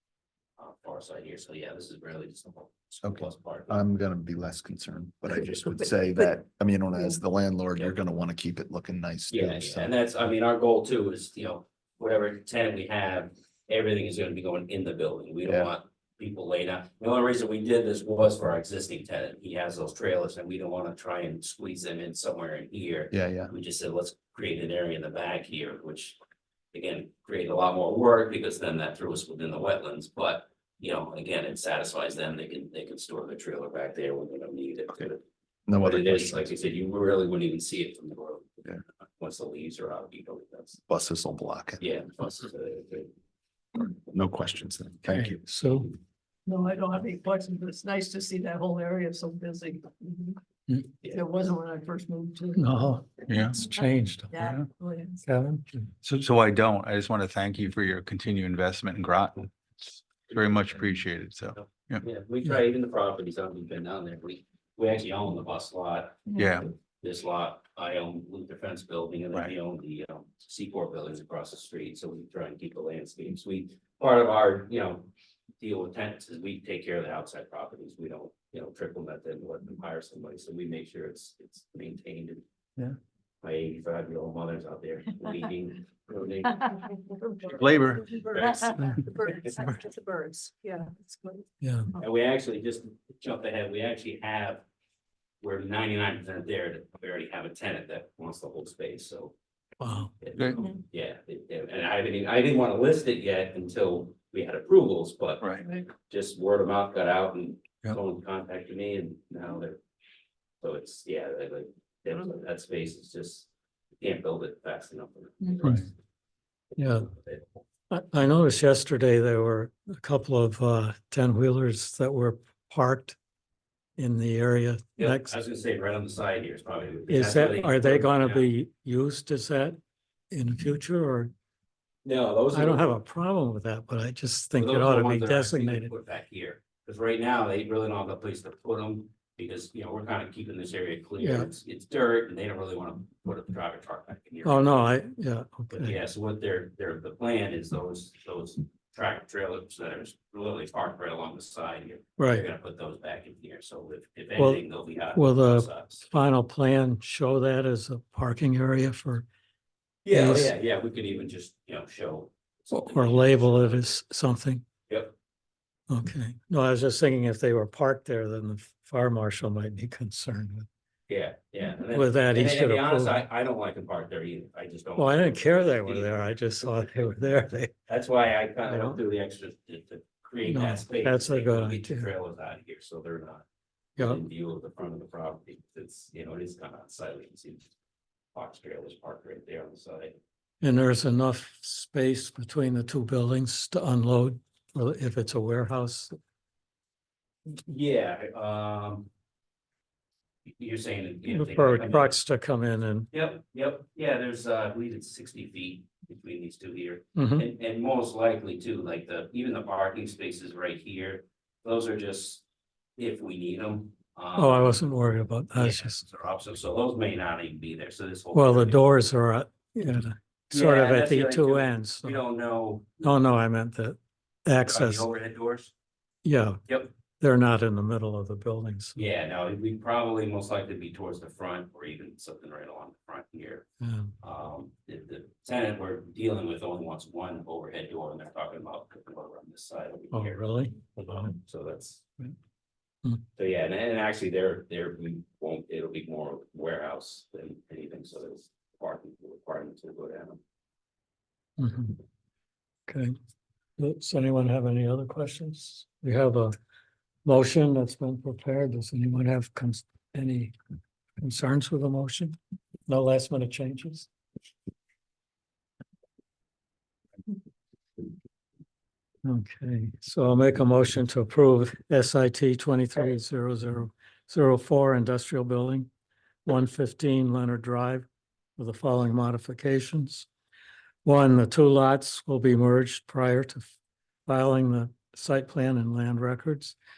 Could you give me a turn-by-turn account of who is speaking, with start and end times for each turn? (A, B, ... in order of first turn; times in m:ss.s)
0:00.6-0:03.8 A
0:03.0-0:09.9 B
0:09.3-0:26.2 A
0:15.5-0:15.7 B
0:23.1-0:23.5 B
0:26.7-0:35.2 A
0:35.7-0:36.5 B
0:35.7-0:38.6 A
0:39.2-0:40.8 A
0:40.9-0:41.8 B
0:41.8-0:43.1 A
0:43.7-0:45.4 B
0:45.1-0:45.9 C
0:46.4-0:50.4 D
0:51.0-0:52.8 D
0:52.6-0:54.4 C
0:53.3-0:53.7 E
0:54.3-0:55.2 D
0:54.4-0:54.7 E
0:55.2-0:55.9 C
0:56.0-0:59.5 E
1:00.3-1:02.0 E
1:01.6-1:15.1 A
1:06.4-1:06.7 E
1:15.6-1:22.4 A
1:23.4-1:26.8 A
1:26.8-1:31.4 D
1:27.6-1:28.0 E
1:28.3-1:29.0 A
1:31.6-1:31.9 C
1:32.0-1:34.6 A
1:35.4-1:39.3 A
1:39.8-1:40.1 C
1:40.2-1:49.8 A
1:45.6-1:45.9 D
1:50.6-1:53.5 A
1:54.0-1:55.9 A
1:56.8-1:57.1 C
1:56.8-1:57.5 A
1:57.9-2:03.2 C
2:04.0-2:05.3 C
2:05.0-2:08.5 A
2:07.1-2:09.8 C
2:10.3-2:11.3 C
2:12.0-2:12.9 A
2:12.5-2:15.9 C
2:14.6-2:24.8 A
2:21.2-2:21.5 C
2:24.4-2:26.0 C
2:25.7-2:36.1 A
2:32.2-2:32.4 C
2:34.4-2:39.3 C
2:40.1-2:43.9 A
2:40.1-2:40.5 C
2:42.7-2:44.6 C
2:45.9-2:50.7 C
2:51.1-2:56.1 A
2:51.9-2:53.2 C
2:55.0-2:57.7 C
2:56.6-2:57.1 A
2:57.9-3:03.4 A
2:58.7-2:59.0 C
3:00.5-3:02.1 C
3:04.0-3:07.7 A
3:08.3-3:10.1 A
3:10.6-3:16.1 C
3:17.6-3:19.1 A
3:20.6-3:22.2 A
3:21.3-3:23.1 C
3:23.1-3:32.4 A
3:27.2-3:27.5 C
3:33.0-3:34.8 A
3:34.4-3:36.0 C
3:35.5-3:38.8 A
3:38.3-3:42.2 C
3:40.5-3:43.2 A
3:43.0-3:45.1 C
3:44.6-3:45.7 A
3:46.2-3:46.6 C
3:47.2-3:49.0 C
3:49.0-3:53.7 A
3:53.8-3:54.1 C
3:54.2-4:02.0 A
4:00.1-4:01.3 C
4:03.4-4:10.4 A
4:11.6-4:12.0 C
4:12.9-4:13.1 C
4:13.8-4:16.5 C
4:17.2-4:20.5 C
4:21.2-4:22.4 C
4:22.9-4:24.1 C
4:29.2-4:35.9 C
4:36.4-4:38.0 C
4:38.6-4:40.3 C
4:41.0-4:43.7 C
4:44.3-4:46.8 C